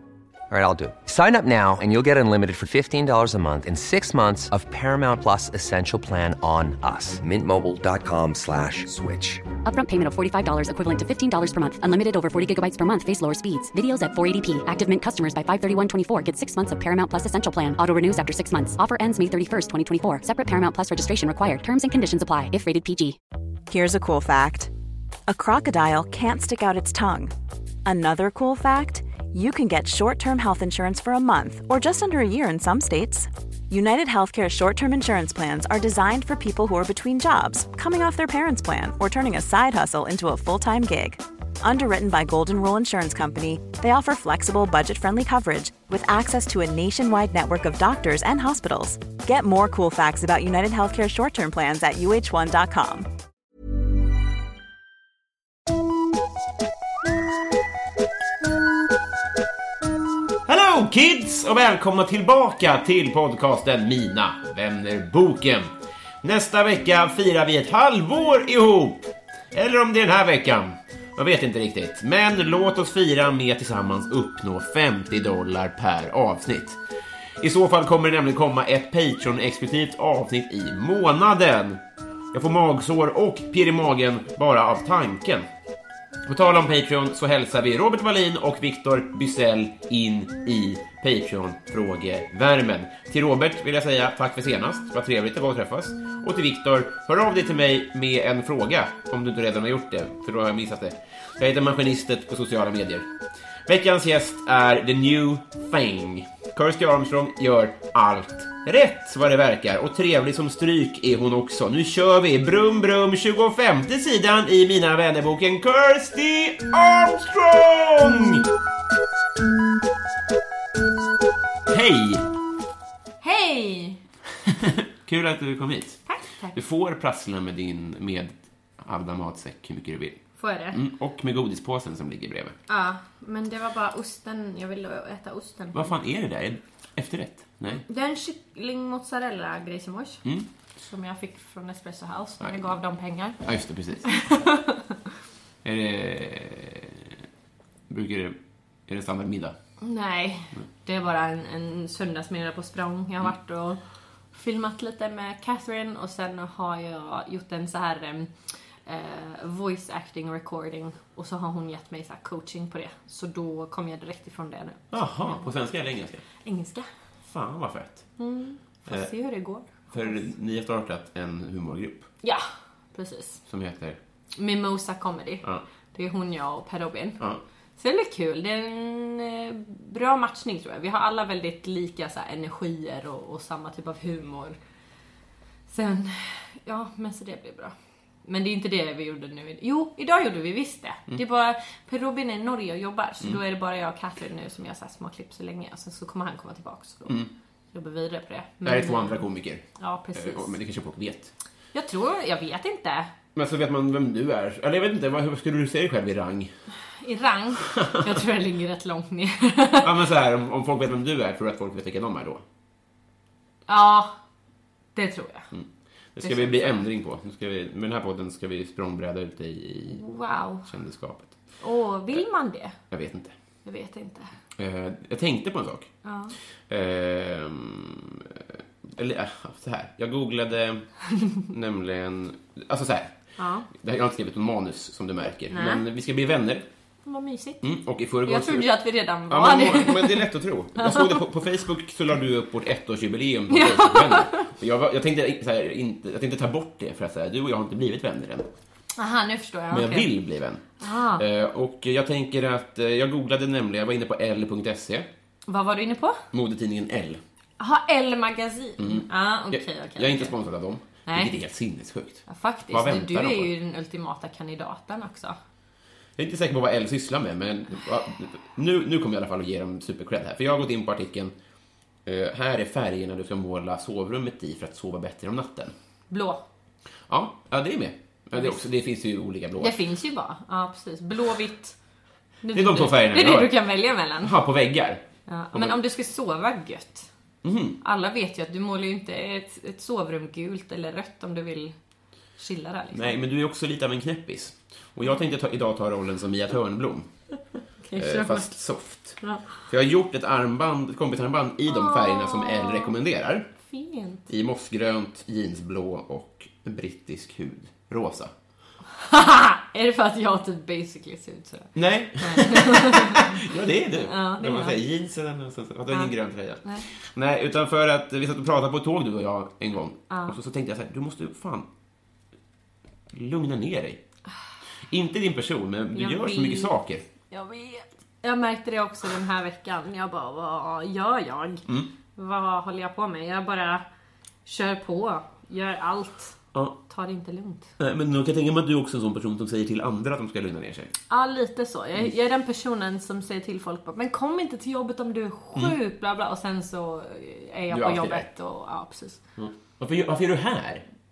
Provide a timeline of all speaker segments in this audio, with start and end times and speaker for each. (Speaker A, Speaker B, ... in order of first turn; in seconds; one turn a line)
Speaker A: 0.5-9.5
Speaker B: 9.6-23.2
Speaker C: 23.7-24.7
Speaker C: 25.3-27.3
Speaker C: 27.9-53.1
Speaker D: 60.5-65.7
Speaker D: 66.2-76.8
Speaker D: 77.4-81.8
Speaker D: 82.3-85.5
Speaker D: 86.2-103.0
Speaker D: 103.7-118.5
Speaker D: 121.7-122.2
Speaker E: 123.2-124.0
Speaker D: 124.5-130.2
Speaker E: 126.1-126.5
Speaker E: 130.4-130.8
Speaker D: 130.7-132.6
Speaker E: 132.7-135.9
Speaker D: 135.7-137.8
Speaker E: 137.8-140.2
Speaker E: 140.8-143.4
Speaker D: 142.4-142.7
Speaker D: 143.4-144.1
Speaker E: 144.0-145.0
Speaker D: 145.6-147.1
Speaker D: 147.9-148.4
Speaker D: 148.9-149.6
Speaker E: 149.8-153.8
Speaker E: 154.3-158.3
Speaker E: 158.8-165.5
Speaker D: 164.9-166.2
Speaker E: 166.4-166.9
Speaker D: 167.3-168.1
Speaker E: 168.2-170.2
Speaker D: 169.9-172.1
Speaker E: 172.2-173.4
Speaker D: 173.5-174.0
Speaker E: 174.3-177.2
Speaker E: 177.8-184.6
Speaker E: 185.7-187.7
Speaker E: 188.2-199.2
Speaker D: 198.6-201.3
Speaker E: 199.8-200.6
Speaker E: 201.7-203.1
Speaker D: 203.3-206.5
Speaker E: 206.9-209.9
Speaker D: 207.6-208.0
Speaker D: 209.8-212.4
Speaker E: 213.7-214.1
Speaker E: 214.9-215.5
Speaker D: 215.5-220.0
Speaker E: 216.2-216.8
Speaker E: 219.9-220.7
Speaker D: 220.7-221.3
Speaker E: 221.6-222.8
Speaker D: 222.9-223.3
Speaker E: 223.6-224.3
Speaker D: 224.6-225.9
Speaker E: 226.0-226.3
Speaker D: 226.7-233.2
Speaker E: 233.4-233.7
Speaker D: 233.7-236.7
Speaker E: 235.5-235.8
Speaker E: 237.1-237.6
Speaker D: 237.6-238.7
Speaker E: 238.2-241.2
Speaker D: 239.3-248.5
Speaker E: 243.5-244.5
Speaker E: 249.0-250.1
Speaker D: 249.7-255.1
Speaker E: 250.8-251.2
Speaker E: 255.5-256.2
Speaker D: 256.3-257.2
Speaker E: 257.6-260.4
Speaker D: 258.8-263.5
Speaker E: 261.1-261.3
Speaker E: 262.3-265.4
Speaker D: 266.2-271.3
Speaker D: 272.0-275.7
Speaker E: 276.1-276.4
Speaker D: 277.1-279.8
Speaker E: 279.6-281.8
Speaker E: 282.4-284.4
Speaker D: 282.5-283.6
Speaker D: 284.2-285.0
Speaker E: 285.3-287.1
Speaker D: 287.4-287.8
Speaker E: 287.8-291.7
Speaker E: 292.4-293.2
Speaker D: 292.9-297.1
Speaker E: 297.8-298.5
Speaker D: 297.9-303.5
Speaker E: 299.2-299.5
Speaker E: 301.7-302.9
Speaker E: 303.7-304.3
Speaker D: 304.3-308.3
Speaker E: 308.9-313.4
Speaker D: 311.8-321.7
Speaker E: 314.0-314.8
Speaker E: 315.9-316.9
Speaker E: 320.1-320.4
Speaker D: 323.1-324.0
Speaker D: 324.9-327.0
Speaker E: 325.9-326.7
Speaker E: 327.3-331.6
Speaker E: 332.1-333.8
Speaker E: 334.4-337.7
Speaker D: 337.8-340.9
Speaker E: 341.1-349.2
Speaker D: 347.7-348.3
Speaker D: 349.4-350.8